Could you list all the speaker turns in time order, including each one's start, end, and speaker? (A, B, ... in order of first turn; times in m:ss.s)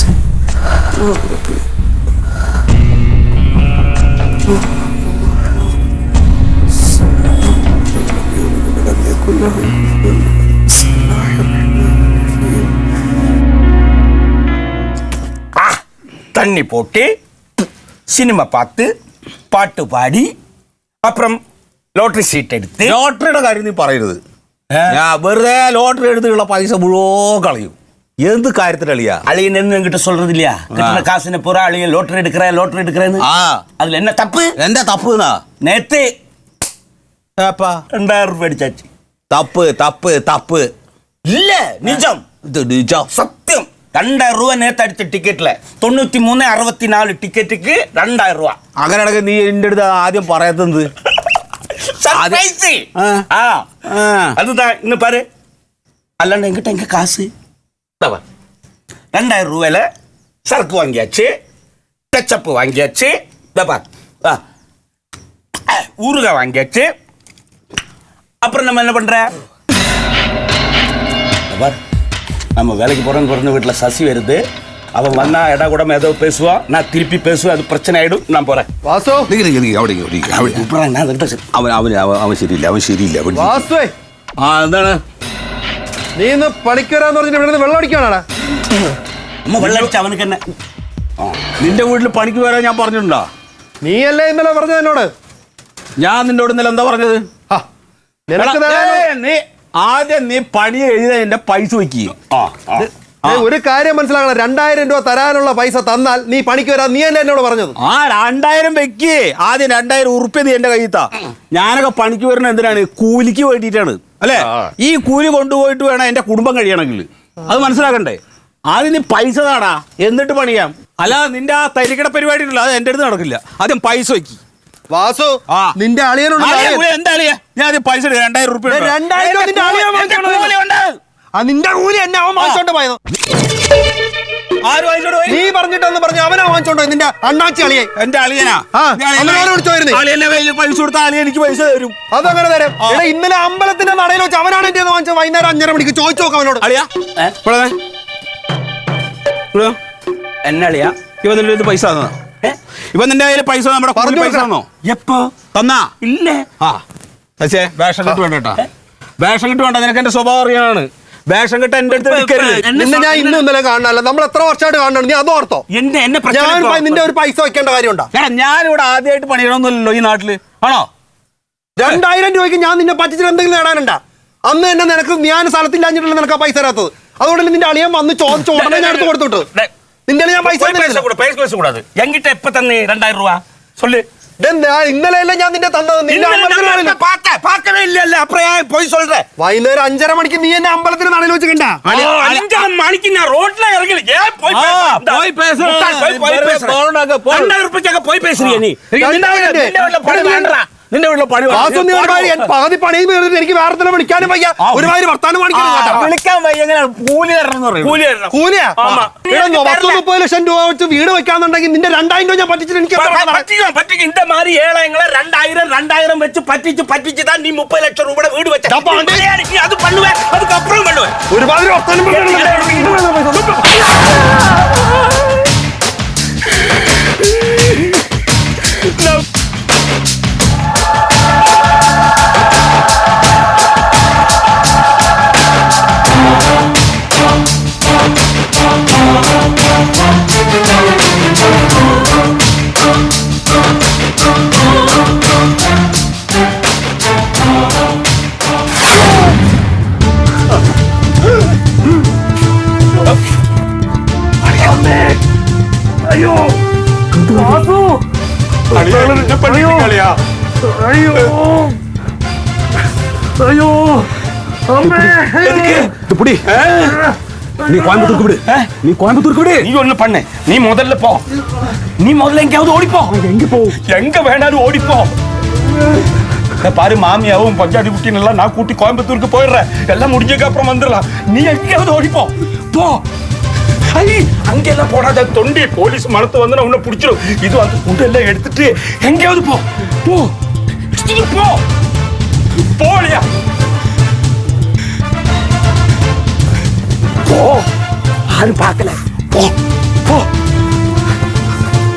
0:01.1-0:01.4 A
0:08.4-0:09.7 A
0:16.3-0:17.1 B
0:18.1-0:18.9 B
0:19.5-0:20.3 B
0:21.0-0:21.4 B
0:22.0-0:23.0 B
0:22.8-0:24.2 A
0:24.7-0:25.0 B
0:24.9-0:29.2 A
0:29.3-0:33.2 B
0:30.7-0:31.0 A
0:33.2-0:33.6 A
0:33.8-0:34.6 B
0:34.6-0:35.4 A
0:35.6-0:36.1 B
0:37.4-0:37.8 A
0:37.9-0:38.9 B
0:39.3-0:40.7 A
0:41.3-0:42.2 B
0:42.4-0:43.1 A
0:43.1-0:48.6 B
0:48.8-0:50.9 A
0:52.0-0:53.7 B
0:52.1-0:52.4 A
0:53.0-0:53.3 A
0:53.9-0:54.4 A
0:54.4-0:55.2 B
0:56.2-0:57.3 B
0:59.1-0:59.9 B
1:00.5-1:01.3 B
1:02.1-1:04.4 B
1:05.7-1:06.9 B
1:08.4-1:09.3 B
1:11.5-1:11.8 B
1:12.6-1:14.4 B
1:15.0-1:18.7 B
1:18.8-1:19.3 C
1:19.3-1:20.7 A
1:20.3-1:21.5 B
1:21.5-1:23.7 A
1:23.3-1:23.9 C
1:24.4-1:25.0 A
1:26.2-1:28.2 C
1:29.5-1:30.4 B
1:29.6-1:29.9 A
1:31.5-1:33.3 A
1:33.8-1:35.1 C
1:36.0-1:37.3 A
1:38.3-1:39.1 C
1:38.4-1:42.3 A
1:42.3-1:42.9 B
1:42.8-1:43.5 A
1:43.2-1:47.8 C
1:47.8-2:04.4 A
2:04.9-2:06.9 C
2:05.5-2:05.8 A
2:06.4-2:10.8 A
2:08.7-2:10.5 C
2:09.9-2:10.6 B
2:11.4-2:13.0 C
2:14.6-2:15.4 A
2:15.3-2:17.9 C
2:18.0-2:22.1 A
2:18.7-2:20.0 C
2:22.1-2:26.7 C
2:22.8-2:23.0 A
2:26.6-2:27.8 A
2:30.4-2:31.0 B
2:31.2-2:32.2 A
2:32.9-2:34.7 A
2:34.0-2:34.5 C
2:34.8-2:35.4 B
2:35.5-2:35.9 A
2:36.0-2:36.5 B
2:37.4-2:38.6 A
2:39.2-2:42.7 A
2:41.9-2:43.4 B
2:42.7-2:45.6 C
2:45.7-2:47.1 B
2:46.3-2:48.1 C
2:48.1-2:50.9 A
2:51.8-2:59.5 C
2:58.4-2:59.7 B
3:00.1-3:01.1 C
3:00.4-3:04.0 B
3:04.4-3:07.0 C
3:06.1-3:09.3 B
3:09.4-3:11.9 C
3:11.9-3:12.5 A
3:11.9-3:16.8 B
3:14.5-3:17.6 A
3:17.3-3:20.6 B
3:18.4-3:22.5 A
3:19.0-3:19.8 C
3:21.5-3:26.1 C
3:24.6-3:25.0 A
3:25.5-3:28.0 A
3:27.8-3:30.0 B
3:28.3-3:33.5 C
3:28.8-3:29.1 A
3:33.0-3:41.2 B
3:38.7-3:39.2 C
3:41.3-3:43.4 C
3:42.1-3:43.9 B
4:14.5-4:15.2 B
4:16.1-4:16.5 B
4:17.2-4:18.0 B
4:17.3-4:17.7 A
4:18.7-4:20.2 B
4:18.7-4:19.9 A
4:21.2-4:21.7 B
4:23.4-4:24.0 B
4:24.8-4:26.6 A
4:24.8-4:25.9 B
4:26.5-4:27.1 B
4:27.6-4:29.7 A
4:29.6-4:31.2 B
4:32.0-4:33.2 B
4:33.1-4:33.8 A
4:33.7-4:35.1 B
4:36.6-4:43.0 B
4:43.9-4:50.3 B
4:50.9-4:51.6 B
4:52.7-4:53.2 B
4:57.2-4:57.7 B
4:58.3-4:59.5 B